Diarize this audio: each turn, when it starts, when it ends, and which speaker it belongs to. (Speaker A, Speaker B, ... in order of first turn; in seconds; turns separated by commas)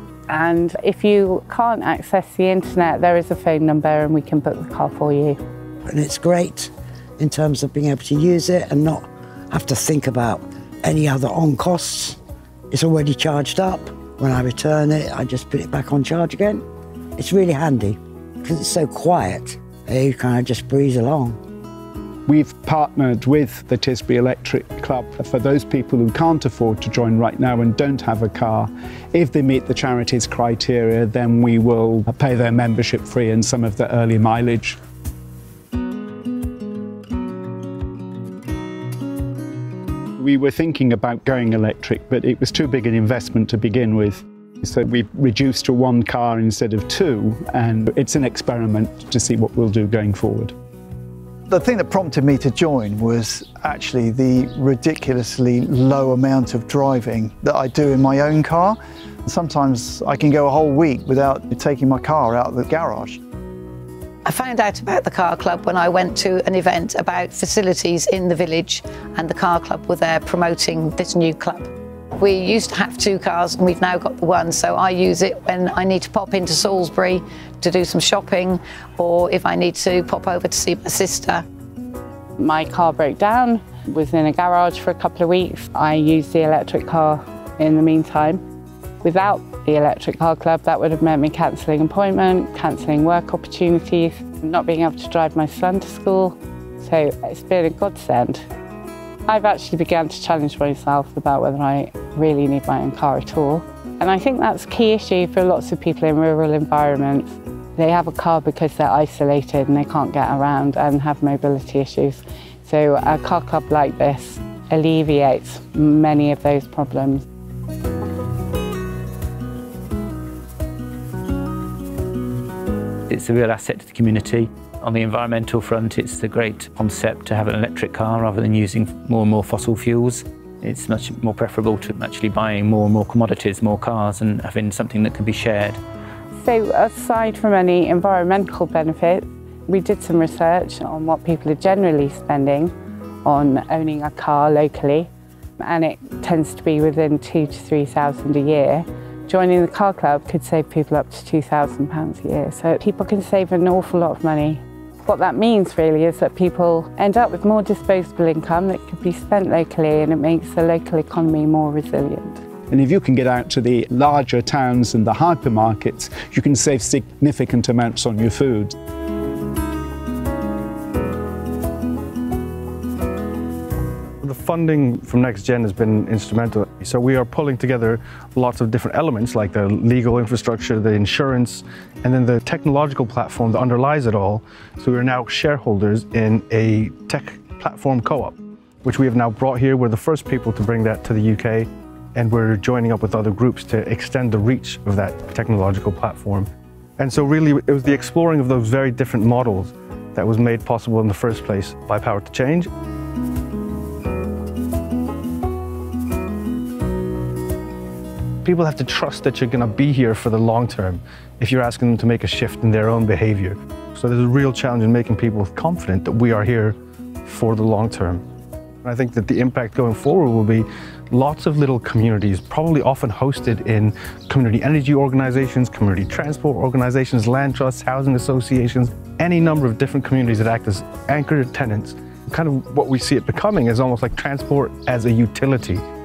Speaker A: 0.3-5.4, Speaker B: 5.9-12.2, Speaker B: 12.7-16.6, Speaker B: 17.2-21.4, Speaker C: 22.3-34.8, Speaker C: 40.2-50.5, Speaker D: 51.5-63.2, Speaker E: 64.3-71.7, Speaker E: 72.2-81.4, Speaker A: 82.4-88.4, Speaker A: 89.0-98.5, Speaker A: 99.3-117.2, Speaker F: 123.1-135.8, Speaker A: 136.3-142.7, Speaker A: 143.2-162.4, Speaker C: 162.7-168.7, Speaker G: 174.2-196.5, Speaker G: 197.0-202.7, Speaker G: 208.4-218.2, Speaker G: 218.8-235.8